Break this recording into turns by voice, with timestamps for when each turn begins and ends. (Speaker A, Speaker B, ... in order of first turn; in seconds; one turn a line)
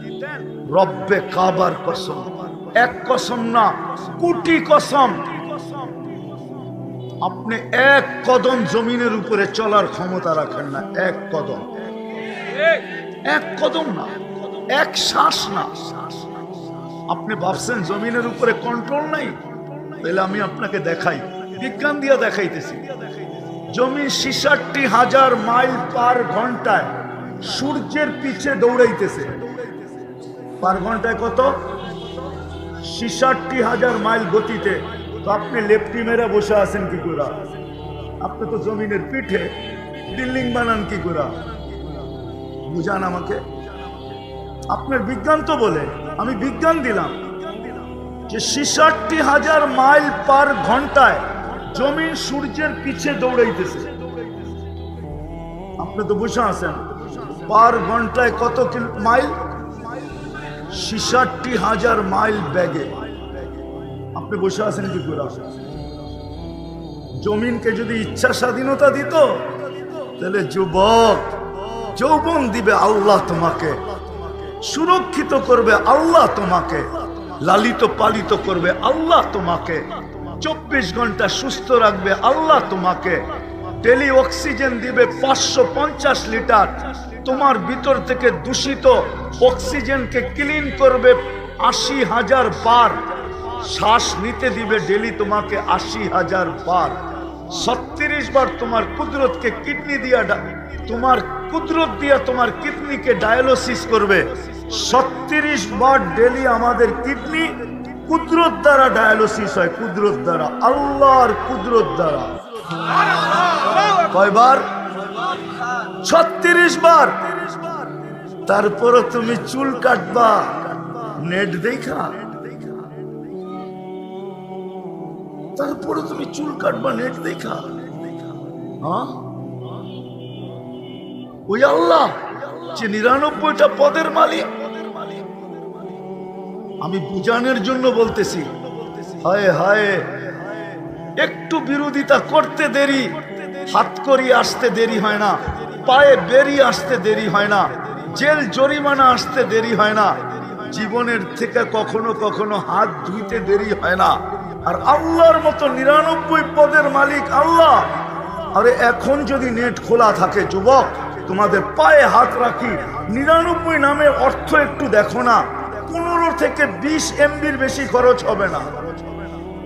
Speaker A: 0.4-5.4
Speaker A: 7.2-11.7
Speaker A: 13.3-16.2
Speaker A: 17.1-19.4
Speaker A: 20.0-22.9
Speaker A: 23.7-29.4
Speaker A: 30.6-31.7
Speaker A: 32.8-37.4
Speaker A: 38.2-41.4
Speaker A: 42.6-43.4
Speaker A: 44.7-47.3
Speaker A: 48.3-54.0
Speaker A: 55.8-59.4
Speaker A: 60.7-63.0
Speaker A: 64.1-65.6
Speaker A: 67.2-69.5
Speaker A: 70.1-73.8
Speaker A: 74.6-112.4
Speaker A: 114.1-114.7
Speaker A: 116.0-117.3
Speaker A: 118.5-122.4
Speaker A: 125.6-127.8
Speaker A: 128.8-129.3
Speaker A: 131.5-135.2
Speaker A: 136.8-138.6
Speaker A: 139.1-140.3
Speaker A: 141.2-168.8